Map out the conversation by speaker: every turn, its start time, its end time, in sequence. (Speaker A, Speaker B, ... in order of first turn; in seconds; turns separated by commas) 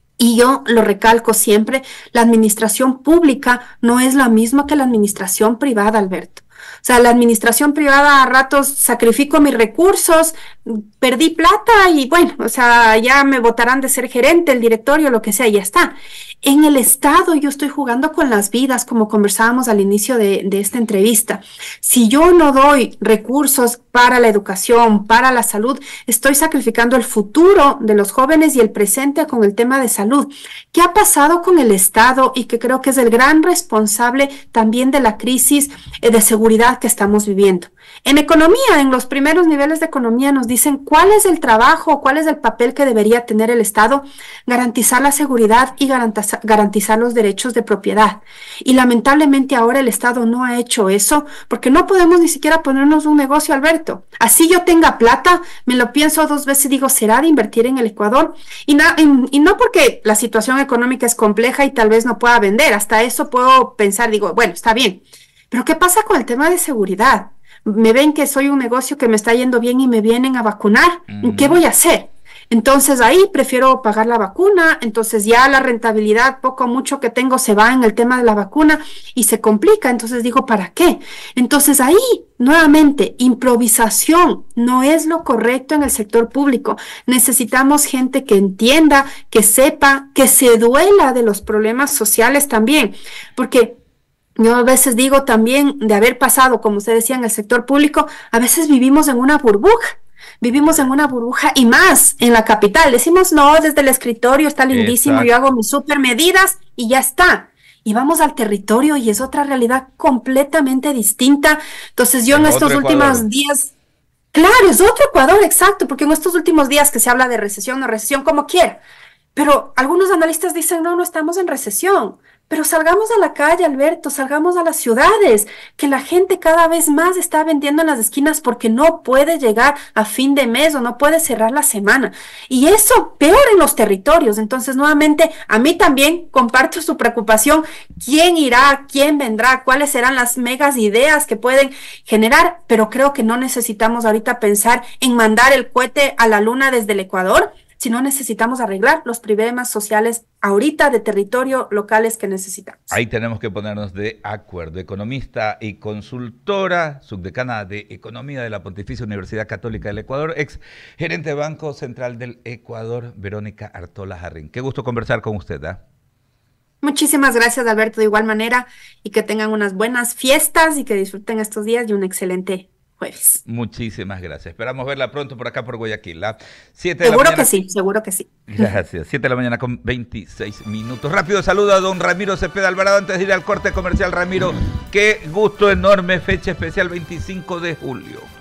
Speaker A: 0.2-93.8, Speaker B: 71.1-71.6, Speaker A: 94.4-113.7, Speaker B: 104.7-105.3, Speaker B: 112.3-113.2, Speaker A: 114.3-118.8, Speaker A: 119.3-152.9, Speaker B: 152.9-165.8, Speaker A: 166.8-173.4, Speaker B: 173.4-177.5, Speaker A: 177.0-178.7, Speaker B: 178.5-188.3